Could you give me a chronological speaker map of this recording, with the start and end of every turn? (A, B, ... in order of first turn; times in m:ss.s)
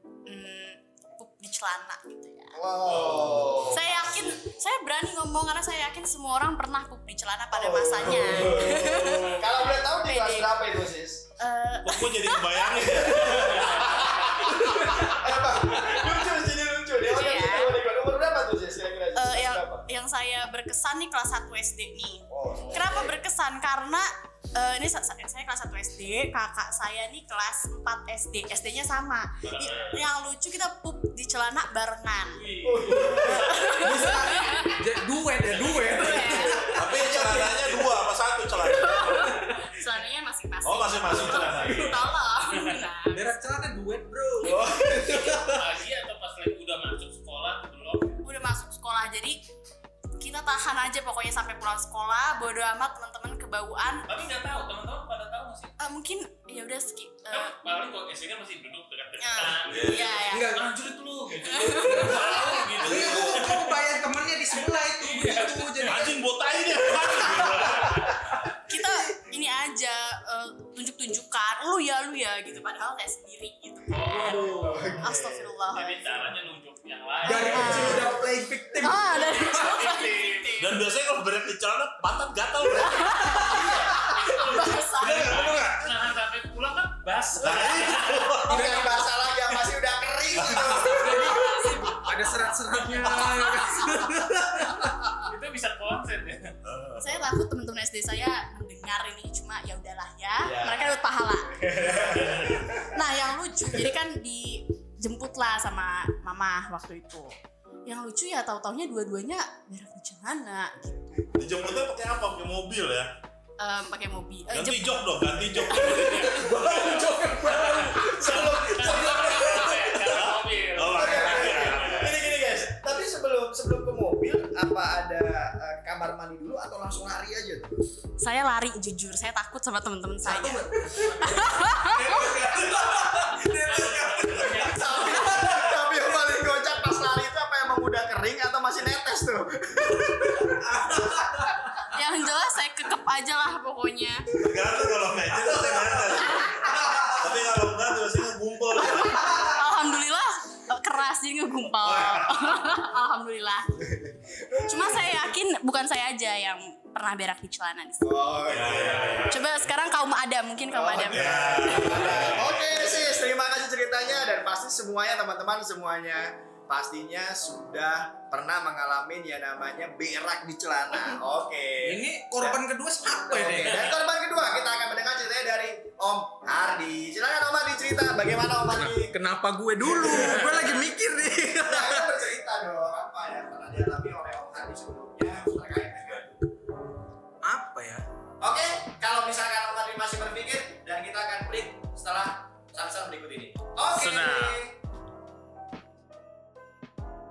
0:00.2-0:02.6 A
0:02.6-0:04.4 B
0:02.8-0:03.7 C
0:03.7-0:09.4 A
0:07.5-0:11.3 B
0:09.0-0:09.5 D
0:09.9-0:10.6 A
0:11.4-0:14.6 A
0:11.8-0:14.0 C
0:13.1-0:19.8 B
0:17.0-0:17.7 A
0:19.2-0:32.4 A
0:22.3-0:23.1 B
0:22.5-0:22.8 D
0:29.5-0:30.0 D
0:29.5-0:30.0 C
0:32.3-0:34.3 D
0:32.6-0:33.5 B
0:32.9-0:37.2 E
0:33.4-0:34.8 A
0:35.4-0:36.5 D
0:35.8-0:36.6 A
0:36.0-0:37.7 B
0:36.7-0:39.4 C
0:38.6-0:43.3 A
0:40.6-0:42.1 C
0:41.7-0:41.9 E
0:43.1-0:45.7 E
0:44.5-0:45.3 B
0:45.4-0:48.2 D
0:48.2-0:49.4 A
0:50.2-0:54.1 A
0:54.1-0:55.8 D
0:55.8-0:57.5 A
0:57.3-1:03.8 D
0:59.2-1:00.5 A
0:59.7-1:00.2 C
1:00.3-1:00.8 E
1:01.4-1:02.6 A
1:01.6-1:06.2 E
1:02.5-1:03.7 C
1:04.7-1:06.1 D
1:05.8-1:08.5 C
1:07.0-1:07.6 A
1:07.3-1:08.2 D
1:08.6-1:16.0 A
1:13.9-1:15.0 D
1:14.2-1:15.6 B
1:15.7-1:18.1 D
1:17.2-1:19.8 E
1:17.5-1:18.1 A
1:17.7-1:18.0 B
1:18.8-1:20.8 A
1:19.5-1:20.5 D
1:20.6-1:23.4 C
1:22.8-1:25.6 A
1:23.5-1:23.9 B
1:24.2-1:28.4 D
1:24.9-1:26.0 C
1:27.4-1:29.0 C
1:28.4-1:31.6 B
1:30.4-1:31.1 C
1:30.9-1:34.9 E
1:30.9-1:32.0 A
1:31.1-1:32.0 D
1:33.1-1:33.9 A
1:35.2-1:36.6 D
1:36.6-1:37.1 C
1:37.0-1:41.9 A
1:40.4-1:41.0 B
1:41.6-1:43.0 B
1:42.0-1:42.5 C
1:42.8-1:47.4 A
1:47.9-1:51.2 A
1:51.4-1:53.1 C
1:53.6-1:55.0 A
1:54.5-1:57.0 C
1:55.9-2:01.8 D
1:56.2-1:58.9 E
1:56.6-1:56.9 B
1:58.2-1:59.9 B
1:58.2-2:02.8 C
2:00.9-2:07.8 B
2:08.2-2:10.6 A
2:10.2-2:15.8 E
2:11.2-2:12.3 A
2:12.2-2:13.2 C
2:13.5-2:15.4 D
2:14.6-2:21.5 B
2:21.8-2:24.3 A
2:24.3-2:29.3 C
2:26.3-2:26.6 A
2:26.8-2:27.1 B
2:28.8-2:33.8 A
2:29.3-2:29.5 B
2:31.8-2:32.6 C
2:33.8-2:35.2 B
2:34.6-2:38.1 A
2:38.0-2:39.4 B
2:38.5-2:39.4 C
2:39.3-2:42.3 A
2:40.7-2:59.1 B
2:41.1-2:43.2 C
2:51.8-2:54.0 E
2:58.7-3:02.2 E
2:59.8-3:00.6 B
3:01.6-3:06.3 B
3:06.0-3:06.3 C
3:07.4-3:08.0 E
3:08.4-3:14.7 B
3:13.9-3:14.6 D